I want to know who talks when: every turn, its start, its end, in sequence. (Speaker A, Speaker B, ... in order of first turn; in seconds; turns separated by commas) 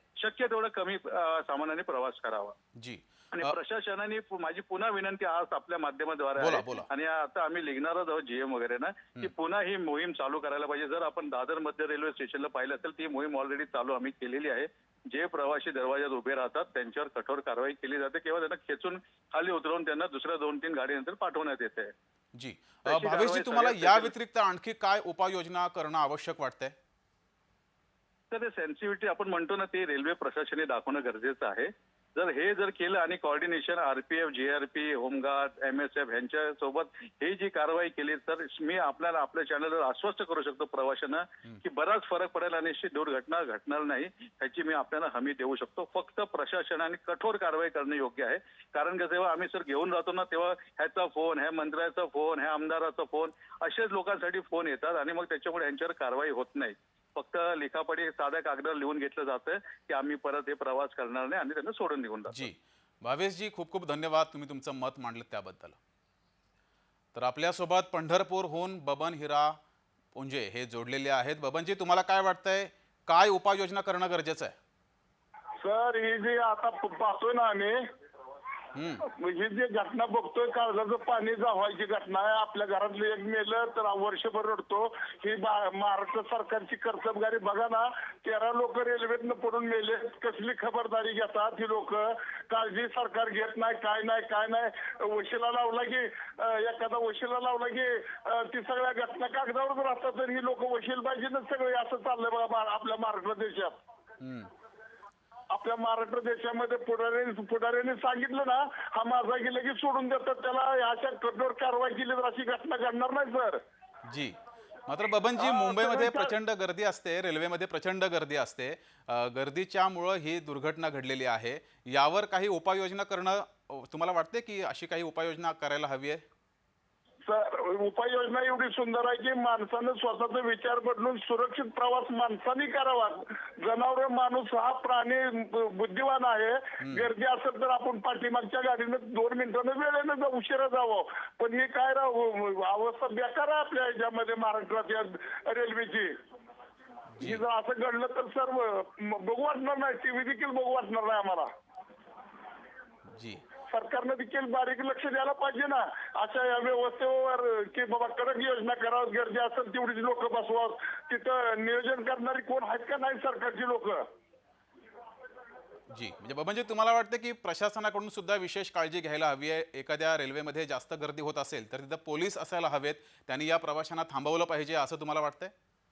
Speaker A: 0.2-2.5, Speaker B: 2.8-3.5, Speaker A: 3.3-21.9, Speaker B: 6.4-6.8, Speaker B: 22.4-26.7, Speaker A: 22.9-24.1, Speaker A: 28.3-62.5, Speaker B: 62.3-65.8, Speaker B: 67.1-69.6, Speaker B: 70.1-74.5, Speaker C: 75.6-77.8, Speaker B: 78.8-79.0, Speaker C: 79.2-103.8, Speaker B: 104.2-104.5, Speaker C: 105.5-113.6, Speaker B: 114.0-114.3, Speaker B: 114.9-126.2, Speaker C: 115.4-116.3, Speaker C: 127.2-146.1, Speaker B: 136.8-137.1, Speaker B: 147.2-147.4, Speaker C: 147.2-151.5, Speaker B: 153.1-153.4, Speaker C: 153.7-164.0, Speaker B: 165.9-175.5